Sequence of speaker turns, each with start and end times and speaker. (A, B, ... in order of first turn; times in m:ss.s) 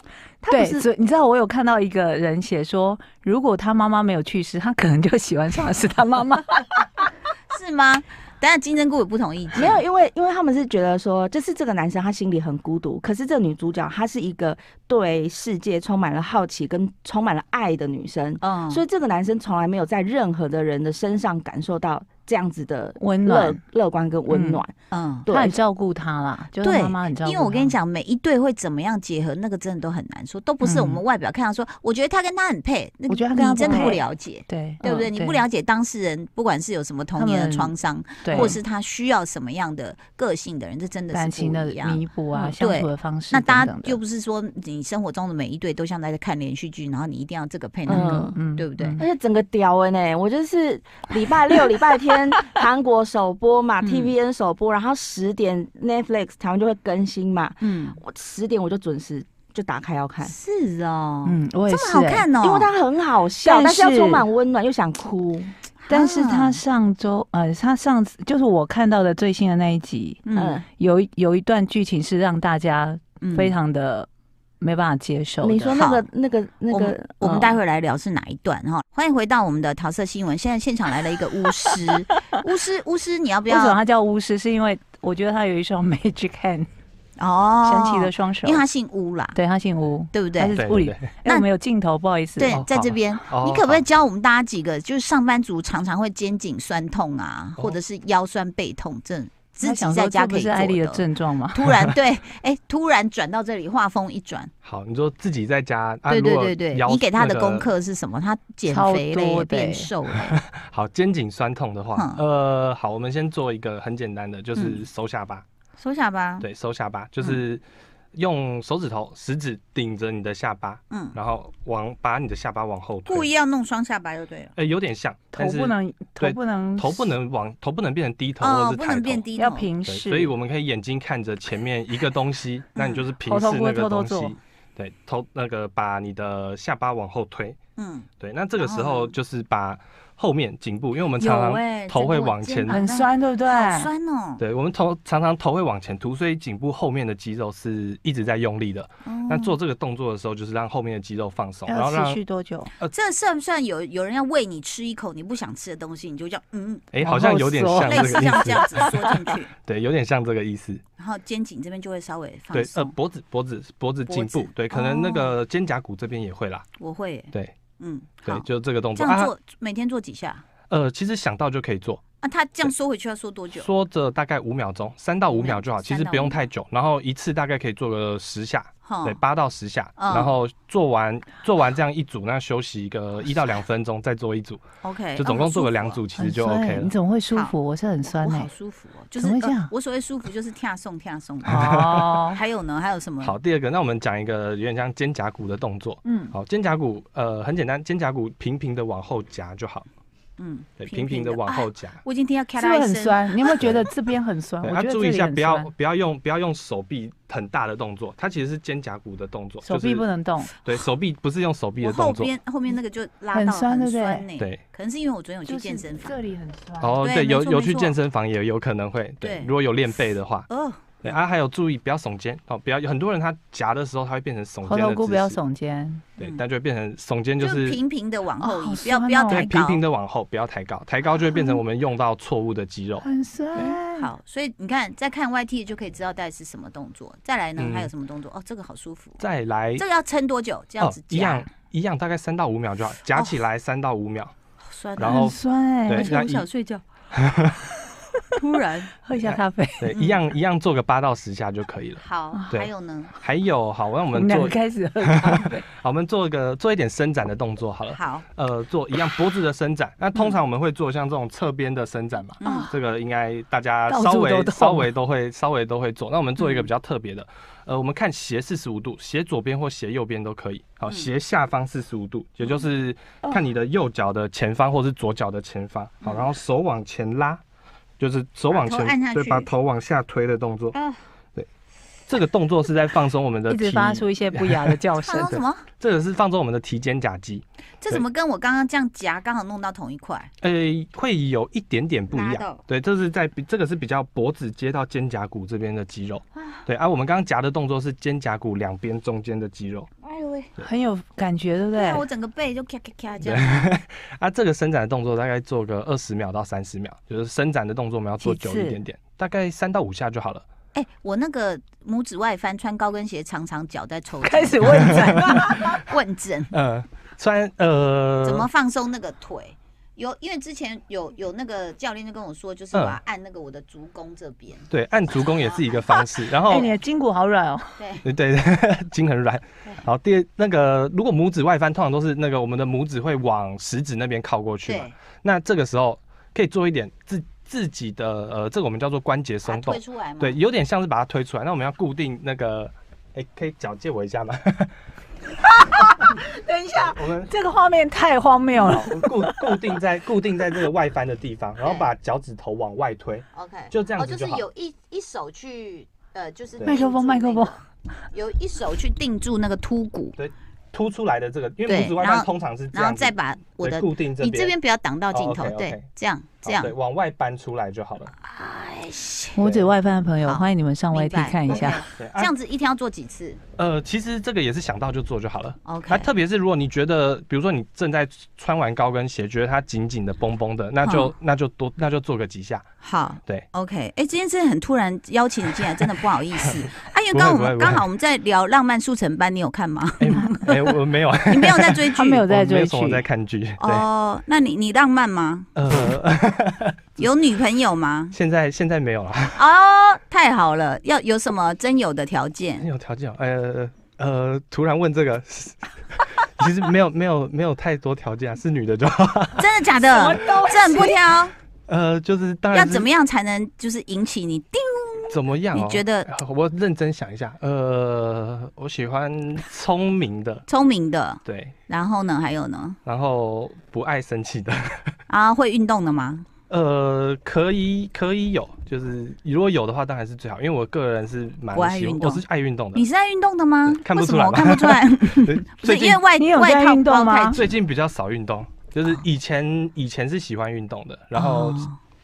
0:00.4-0:00.8 A
0:00.5-0:06.6 B
0:07.5-0:09.8 C
0:09.5-0:24.7 A
0:18.4-0:18.8 C
0:23.0-0:23.6 B
0:24.3-0:24.6 B
0:24.9-0:25.3 C
0:25.2-0:25.5 A
0:25.3-0:27.7 B
0:26.6-0:42.0 C
0:30.6-0:31.0 B
0:33.1-0:35.4 B
0:33.6-0:34.0 A
0:37.2-0:38.6 B
0:38.3-0:38.6 A
0:41.1-0:44.0 B
0:42.6-0:49.0 C
0:47.9-0:48.4 A
0:47.9-0:49.0 B
0:49.0-1:00.3 A
0:53.8-0:54.1 C
0:57.6-0:58.0 C
1:00.2-1:02.7 C
1:01.2-1:02.3 B
1:02.4-1:05.5 A
1:03.4-1:04.2 B
1:05.8-1:06.6 C
1:05.9-1:10.2 B
1:10.2-1:10.6 C
1:10.4-1:10.6 A
1:10.8-1:14.1 B
1:13.2-1:13.5 C
1:14.6-1:15.8 B
1:15.4-1:17.6 A
1:15.7-1:16.1 C
1:16.7-1:23.8 C
1:23.5-1:26.7 B
1:27.2-1:29.4 C
1:27.6-1:28.6 B
1:29.3-1:32.6 B
1:30.1-1:30.6 C
1:30.5-1:31.0 D
1:32.4-1:44.5 C
1:32.5-1:33.8 D
1:39.6-1:41.7 B
1:44.6-1:47.7 D
1:46.1-1:50.4 C
1:48.7-1:49.9 B
1:50.1-1:55.4 D
1:51.9-1:52.2 C
1:54.6-1:54.8 C
1:55.8-1:56.4 C
1:56.4-1:57.6 D
1:58.1-2:03.3 D
2:00.9-2:01.2 C
2:03.1-2:04.5 C
2:04.6-2:09.2 D
2:05.3-2:07.1 B
2:08.4-2:09.7 C
2:09.4-2:10.3 B
2:09.8-2:17.6 D
2:12.8-2:13.0 C
2:13.2-2:14.3 B
2:17.8-2:18.1 C
2:18.2-2:22.8 D
2:18.6-2:19.1 C
2:21.2-2:24.4 C
2:22.7-2:23.9 B
2:24.4-2:32.2 D
2:29.0-2:29.5 C
2:31.7-2:32.7 B
2:32.9-2:36.9 C
2:36.9-2:39.0 D
2:37.0-2:38.5 B
2:37.8-2:39.5 C
2:39.6-2:40.8 D
2:41.0-2:42.9 C
2:42.5-2:46.6 D
2:44.1-2:45.3 C
2:46.8-2:50.4 C
2:48.2-2:49.3 D
2:50.7-2:52.0 D
2:52.2-2:53.7 C
2:53.5-3:04.6 D
2:55.3-2:56.5 C
2:58.8-2:59.2 C
3:00.0-3:00.3 C
3:04.8-3:06.0 C
3:05.2-3:06.9 D
3:06.2-3:08.5 B
3:08.0-3:13.4 C
3:09.2-3:09.7 B
3:11.4-3:12.2 D
3:11.4-3:12.4 B
3:13.2-3:19.8 D
3:20.4-3:23.6 C
3:20.8-3:22.0 D
3:22.6-3:25.7 B
3:23.6-3:23.9 D
3:24.6-3:30.0 D
3:29.6-3:30.5 B
3:30.6-3:32.3 D
3:31.8-3:36.1 C
3:33.3-3:34.2 B
3:35.4-3:37.0 B
3:36.8-3:40.5 D
3:37.0-3:37.9 C
3:39.2-3:39.5 C
3:40.5-3:41.0 C
3:41.0-3:45.4 D
3:44.6-3:46.0 B
3:46.2-3:47.8 D
3:47.4-3:49.8 C
3:48.4-3:49.5 B
3:49.3-3:53.0 D
3:53.0-3:54.1 B
3:53.6-3:59.2 C
3:57.6-3:57.9 D
3:59.2-3:59.8 D
3:59.8-4:01.4 C
4:00.8-4:04.3 D
4:04.6-4:05.3 C
4:05.0-4:05.4 D
4:05.0-4:06.1 B
4:05.9-4:06.4 D
4:05.9-4:06.8 C
4:07.1-4:07.6 D
4:08.4-4:08.9 C
4:09.0-4:09.9 B
4:09.2-4:37.4 D
4:09.9-4:10.2 C
4:12.0-4:13.1 C
4:14.1-4:15.6 B
4:17.9-4:18.2 C
4:22.4-4:22.7 C
4:22.4-4:22.7 B
4:23.9-4:24.9 B
4:26.4-4:26.7 C
4:38.0-4:40.8 D
4:38.5-4:39.5 C
4:40.7-4:41.0 C
4:42.1-4:48.0 D
4:43.5-4:45.4 B
4:45.0-4:45.7 C
4:47.8-4:50.3 C
4:50.4-4:59.9 D
4:52.1-4:52.6 C
4:56.4-4:56.6 C
5:00.0-5:00.5 C
5:00.6-5:02.0 B
5:01.7-5:03.7 C
5:03.2-5:10.4 D
5:08.2-5:08.8 B
5:10.7-5:16.5 C
5:14.2-5:15.8 B
5:14.6-5:15.7 D
5:16.5-5:18.5 D
5:18.2-5:26.1 C
5:22.7-5:23.0 D
5:24.7-5:26.7 D
5:26.5-5:27.8 B
5:27.8-5:28.0 C
5:28.0-5:44.7 D
5:34.7-5:35.0 C
5:39.4-5:40.4 C
5:45.8-5:49.6 B
5:46.7-5:47.3 D
5:48.6-5:54.4 D
5:51.6-5:51.9 C
5:53.3-6:00.2 C
5:56.6-5:57.6 B
6:00.2-6:04.6 D
6:01.6-6:06.7 C
6:05.1-6:05.8 D
6:06.4-6:08.1 D
6:08.2-6:09.4 C
6:09.4-6:11.8 B
6:10.2-6:13.4 C
6:11.5-6:12.3 D
6:13.6-6:22.6 D
6:15.6-6:16.1 C
6:20.8-6:21.1 C
6:22.8-6:30.8 C
6:26.4-6:27.8 D
6:30.0-6:33.8 D
6:31.3-6:32.2 C
6:32.0-6:33.0 B
6:33.6-6:35.5 C
6:35.5-6:37.1 D
6:37.0-6:38.1 C
6:38.1-6:39.4 D
6:39.3-6:42.7 C
6:42.6-6:50.9 D
6:49.4-6:51.3 C
6:49.9-6:50.9 A
6:51.7-6:52.9 D
6:52.5-6:56.1 C
6:55.1-7:00.4 D
7:00.5-7:02.8 C
7:01.2-7:01.5 D
7:02.8-7:04.9 D
7:05.1-7:06.2 C
7:06.5-7:12.8 D
7:11.5-7:12.2 C
7:12.7-7:17.4 C
7:13.7-7:16.0 D
7:16.2-7:17.4 B
7:17.3-7:21.7 D
7:21.2-7:21.8 C